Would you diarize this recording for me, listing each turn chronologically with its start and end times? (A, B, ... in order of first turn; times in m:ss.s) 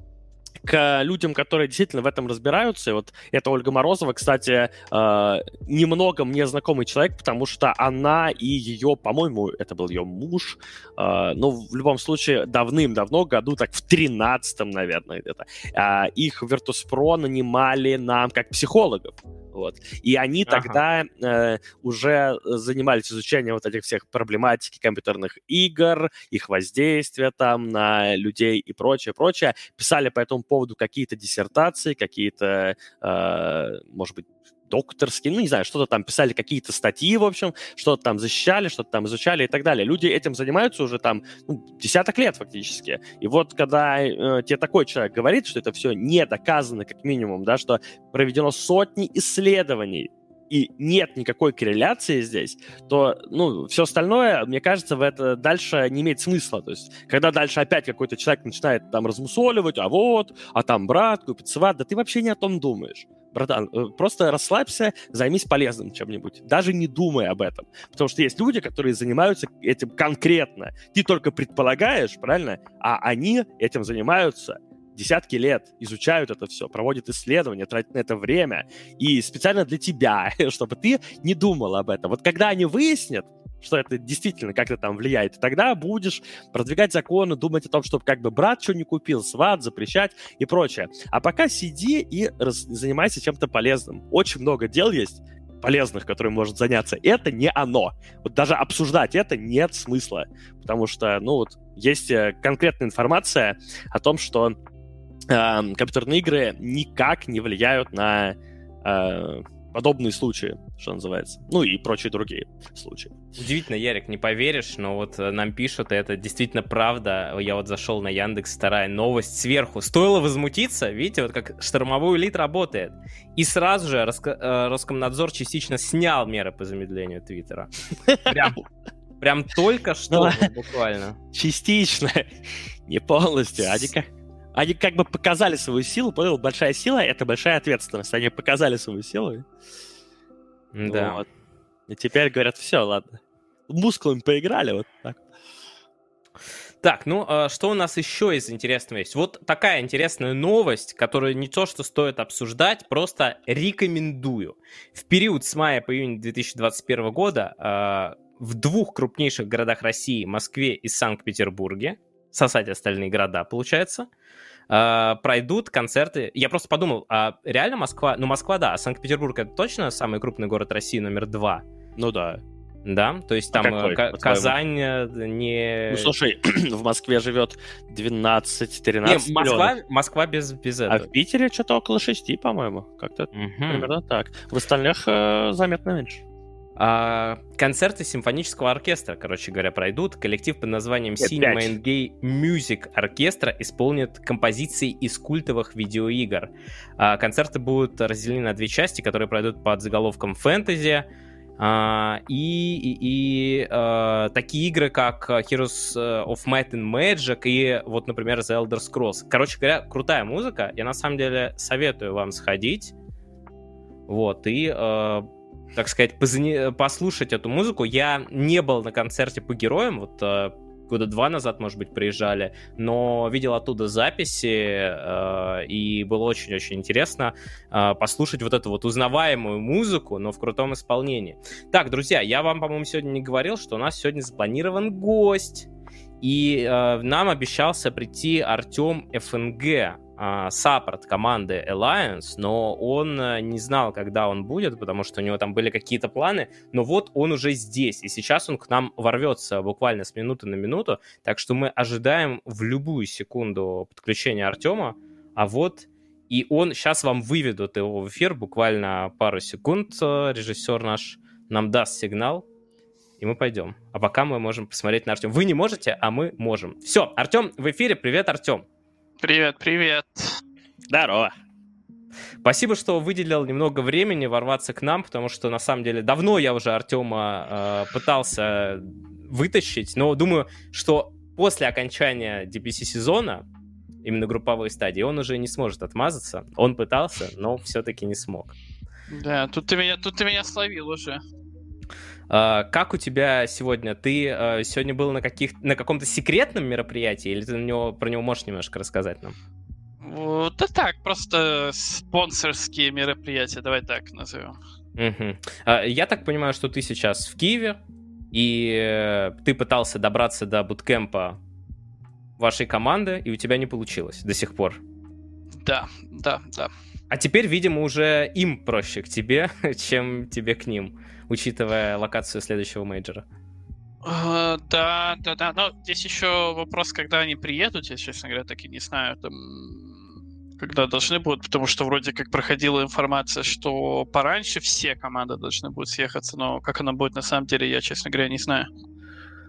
0:00.6-1:44.6 A
0:20.4-0:20.8 B
1:45.3-1:53.2 A
1:53.4-2:07.7 B
2:08.0-2:08.4 A
2:08.2-2:08.6 B
2:09.2-2:11.2 B
2:10.1-2:10.4 A
2:11.3-2:12.3 A
2:12.9-2:19.4 A
2:20.7-2:21.2 B
2:20.8-2:21.2 A
2:21.9-2:25.3 A
2:26.8-2:44.1 B
2:44.7-2:51.6 B
2:52.0-2:52.4 A
2:52.8-2:56.1 B
2:53.5-2:54.5 A
2:55.9-2:59.7 A
2:59.0-3:01.1 B
3:00.9-3:06.2 A
3:03.3-3:03.9 B
3:06.8-3:21.0 B
3:11.2-3:11.7 A
3:21.6-3:32.9 B
3:34.1-3:55.7 B
3:56.2-4:22.4 B
4:23.2-4:28.6 B
4:29.2-4:30.4 C
4:30.9-4:31.3 A
4:32.4-4:43.4 B
4:44.0-4:48.5 B
4:49.1-4:51.2 C
4:52.3-4:59.3 B
5:00.0-5:04.6 C
5:05.0-5:07.8 B
5:08.3-5:11.4 B
5:12.4-5:14.8 B
5:15.6-5:16.7 C
5:17.1-5:23.2 B
5:24.0-5:30.1 C
5:30.6-5:38.7 C